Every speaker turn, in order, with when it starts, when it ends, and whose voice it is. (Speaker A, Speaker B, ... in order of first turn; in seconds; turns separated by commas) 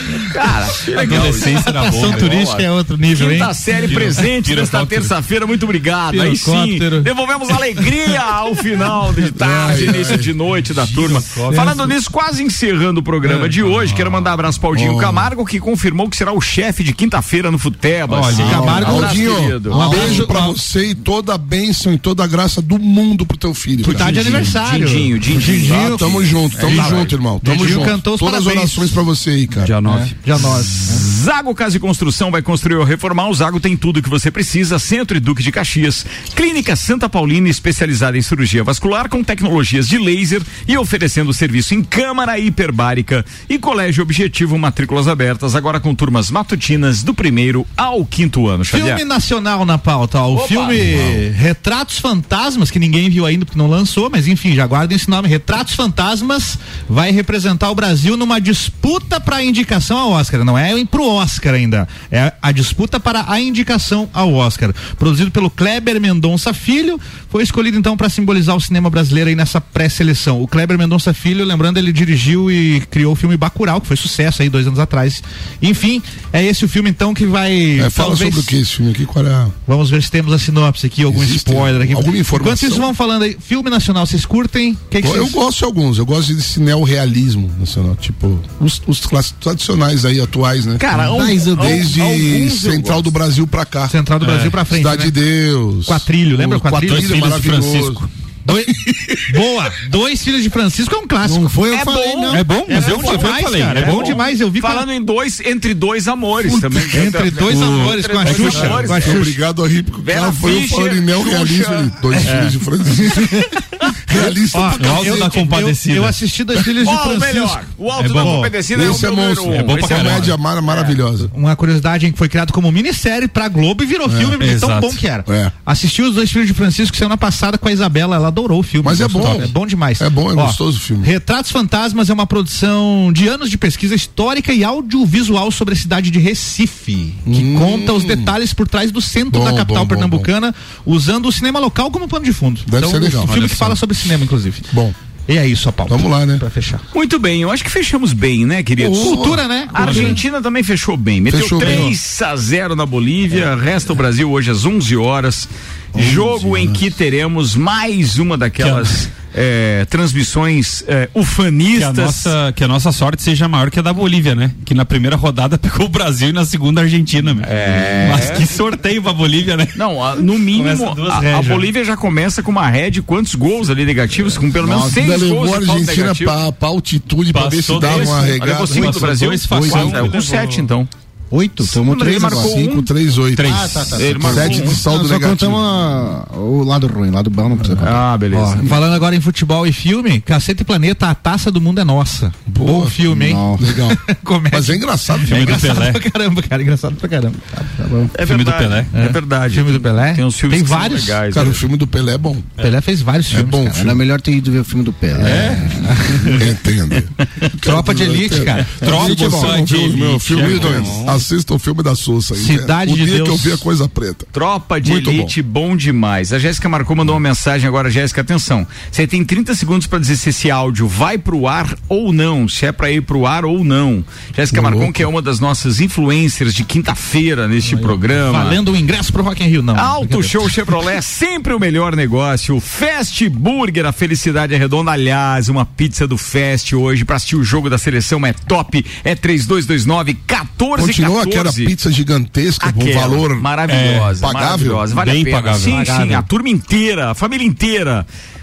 Speaker A: 0.1-20.0, Speaker B: 1.0-2.5, Speaker C: 1.1-3.6, Speaker B: 3.7-5.1, Speaker C: 6.1-7.1, Speaker D: 9.3-10.3, Speaker B: 10.6-11.9, Speaker C: 11.5-11.9, Speaker B: 13.6-14.2, Speaker D: 14.7-15.3, Speaker B: 18.1-19.0, Speaker C: 18.3-20.6, Speaker E: 18.4-20.3, Speaker D: 18.8-24.5, Speaker C: 23.8-28.9, Speaker B: 24.0-24.4, Speaker A: 24.0-27.1, Speaker D: 25.7-29.7, Speaker B: 29.6-30.2, Speaker C: 29.9-31.1, Speaker A: 30.9-49.0, Speaker C: 48.7-78.5, Speaker A: 50.3-50.9, Speaker D: 77.8-79.5, Speaker C: 79.7-85.4, Speaker D: 81.1-82.9, Speaker D: 85.0-94.0, Speaker A: 90.8-93.1, Speaker E: 91.0-91.9, Speaker C: 93.9-95.2, Speaker B: 94.2-94.6, Speaker D: 94.7-98.0, Speaker C: 95.9-97.3, Speaker B: 96.8-98.1, Speaker C: 98.5-101.6, Speaker E: 101.2-102.6, Speaker A: 101.7-109.3, Speaker B: 102.3-104.2, Speaker C: 102.7-104.9, Speaker C: 106.5-109.3, Speaker B: 107.4-108.9, Speaker D: 108.3-115.4, Speaker A: 110.0-112.5, Speaker C: 114.5-118.5, Speaker B: 114.8-116.2, Speaker A: 116.8-121.0, Speaker B: 118.0-118.5, Speaker D: 118.7-121.3, Speaker B: 119.5-120.3, Speaker C: 121.3-144.7, Speaker D: 124.1-124.4, Speaker B: 124.4-125.0, Speaker D: 125.3-125.5, Speaker D: 128.8-131.1, Speaker D: 137.3-138.3, Speaker D: 139.3-140.3, Speaker D: 142.7-143.6, Speaker B: 143.3-143.8, Speaker C: 145.3-146.8, Speaker D: 145.9-146.4, Speaker A: 146.9-162.3, Speaker D: 148.8-150.2, Speaker C: 149.0-150.2, Speaker D: 151.3-151.9, Speaker C: 151.6-151.9, Speaker E: 156.0-156.8, Speaker B: 158.6-159.0, Speaker B: 161.8-169.8, Speaker A: 167.4-168.4, Speaker A: 169.8-176.4, Speaker B: 170.6-171.3, Speaker C: 170.6-171.7, Speaker E: 174.6-175.0, Speaker D: 174.8-179.2, Speaker B: 177.3-180.7, Speaker A: 177.8-180.9, Speaker E: 179.5-180.1, Speaker E: 181.3-182.5, Speaker A: 181.6-182.9, Speaker D: 181.7-185.6, Speaker B: 183.4-184.0, Speaker E: 183.4-188.7, Speaker A: 184.0-184.8, Speaker A: 187.8-188.7, Speaker C: 188.6-197.6, Speaker D: 192.5-195.6, Speaker E: 193.1-193.7, Speaker B: 195.3-196.0, Speaker E: 197.7-198.1, Speaker A: 198.1-201.6, Speaker B: 198.2-198.9, Speaker C: 198.9-201.2, Speaker D: 201.3-202.5, Speaker C: 202.6-203.9, Speaker D: 203.3-204.0, Speaker E: 203.8-206.4, Speaker B: 205.2-206.3, Speaker C: 205.2-206.4, Speaker D: 206.3-214.3, Speaker C: 207.6-209.5, Speaker B: 208.7-211.2, Speaker C: 212.3-213.6, Speaker A: 214.3-228.6, Speaker D: 214.8-215.3, Speaker D: 224.5-225.1, Speaker C: 227.7-230.5, Speaker A: 229.7-241.7, Speaker D: 240.8-243.5, Speaker A: 242.6-248.1, Speaker B: 243.7-244.2, Speaker D: 244.2-244.9, Speaker B: 244.9-246.2